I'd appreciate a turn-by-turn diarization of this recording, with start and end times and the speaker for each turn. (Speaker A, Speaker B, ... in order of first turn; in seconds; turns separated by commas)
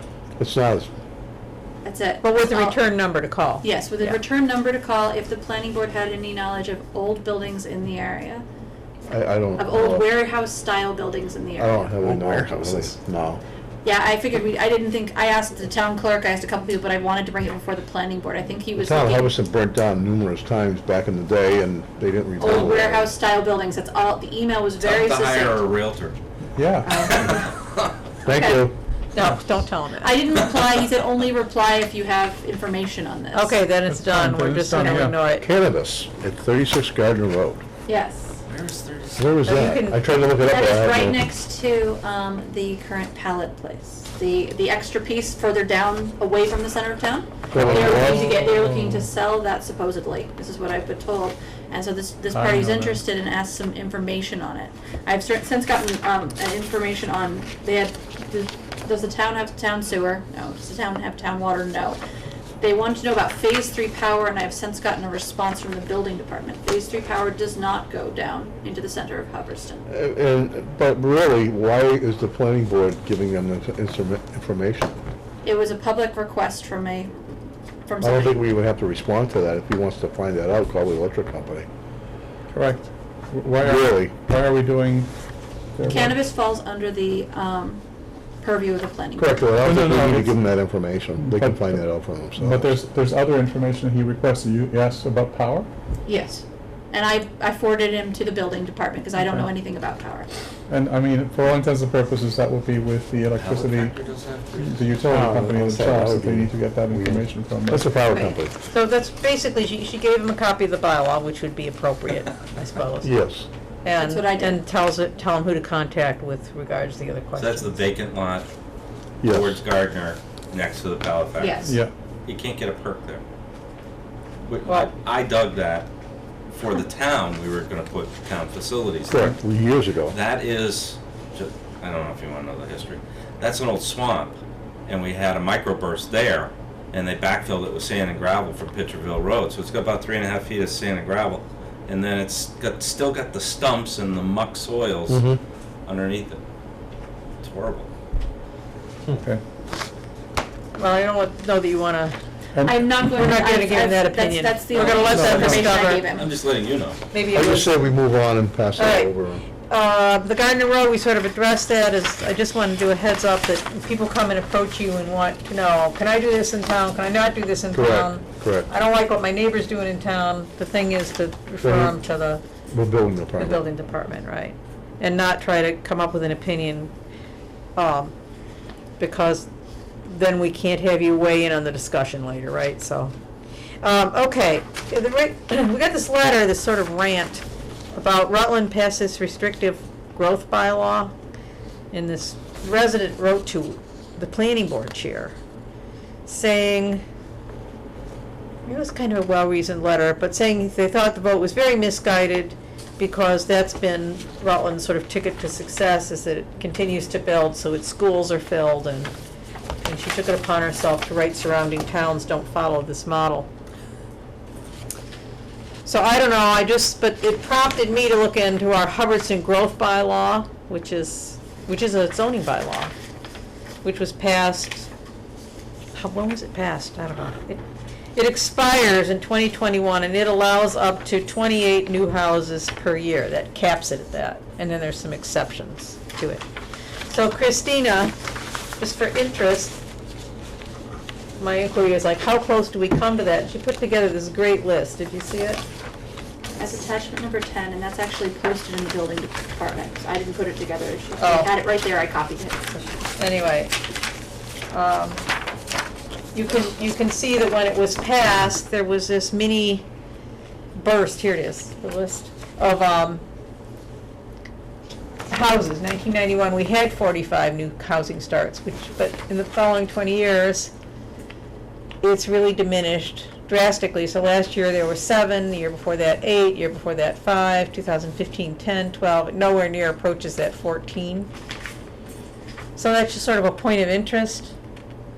Speaker A: 0.4-0.9, Speaker B: 1.8-2.8, Speaker C: 2.2-4.2, Speaker B: 3.6-8.4, Speaker A: 9.1-10.1, Speaker B: 9.6-12.5, Speaker A: 11.6-13.4, Speaker D: 12.0-12.9, Speaker B: 13.8-19.3, Speaker A: 18.8-23.1, Speaker B: 22.4-25.6, Speaker D: 24.8-26.2, Speaker E: 26.6-27.1, Speaker B: 26.9-27.6, Speaker D: 26.9-27.7, Speaker A: 28.2-28.8, Speaker B: 28.3-28.7, Speaker C: 29.1-30.2, Speaker B: 30.0-33.6, Speaker C: 33.3-35.5, Speaker E: 33.9-35.2, Speaker A: 35.3-37.6, Speaker B: 37.9-38.4, Speaker D: 38.5-39.4, Speaker A: 39.2-41.2, Speaker C: 39.4-40.2, Speaker B: 40.4-62.0, Speaker A: 47.5-48.4, Speaker E: 47.8-49.0, Speaker E: 52.3-53.0, Speaker B: 62.6-69.8, Speaker A: 69.9-75.0, Speaker B: 75.4-77.2, Speaker B: 77.9-78.4, Speaker A: 78.0-81.7, Speaker E: 82.5-85.1, Speaker A: 83.6-84.2, Speaker E: 85.8-86.3, Speaker B: 85.9-87.8, Speaker B: 88.4-89.5, Speaker A: 89.2-92.7, Speaker E: 89.6-95.7, Speaker B: 96.1-100.3, Speaker E: 100.7-104.0, Speaker D: 103.3-105.0, Speaker E: 104.6-108.0, Speaker A: 105.0-108.5, Speaker B: 108.1-108.4, Speaker C: 108.7-113.1, Speaker A: 113.0-113.5, Speaker C: 113.8-117.8, Speaker B: 113.9-114.6, Speaker D: 117.4-118.5, Speaker A: 119.2-119.6, Speaker D: 119.2-121.7, Speaker B: 121.4-121.8, Speaker E: 121.6-121.9, Speaker D: 122.3-123.2, Speaker D: 124.4-125.9, Speaker C: 124.7-124.9, Speaker D: 126.5-129.4, Speaker A: 129.1-130.2, Speaker D: 130.1-145.3, Speaker A: 145.1-145.4, Speaker D: 145.9-146.4, Speaker D: 147.4-147.9, Speaker C: 150.8-152.2, Speaker B: 152.6-156.3, Speaker C: 152.8-156.1, Speaker D: 154.7-157.0, Speaker E: 155.1-155.7, Speaker C: 157.1-158.0, Speaker A: 157.3-159.4, Speaker C: 158.8-159.1, Speaker C: 159.7-172.4, Speaker A: 167.7-168.7, Speaker A: 171.6-172.0, Speaker A: 172.7-173.7, Speaker C: 173.4-176.9, Speaker C: 177.8-178.1, Speaker C: 179.0-179.5, Speaker C: 180.1-183.1, Speaker C: 183.8-191.1, Speaker C: 191.9-195.4, Speaker C: 196.3-197.0, Speaker C: 198.7-209.1, Speaker C: 209.8-213.5, Speaker C: 215.8-222.9, Speaker C: 223.8-224.9, Speaker C: 225.9-227.6, Speaker C: 228.2-236.4, Speaker C: 237.1-238.2, Speaker C: 238.8-239.8, Speaker C: 241.4-245.6, Speaker B: 246.6-252.7, Speaker C: 251.2-251.5, Speaker C: 252.8-253.7, Speaker C: 254.7-255.2, Speaker C: 256.3-259.9, Speaker C: 260.8-263.2, Speaker C: 265.3-270.7, Speaker C: 272.0-281.3, Speaker C: 282.8-284.5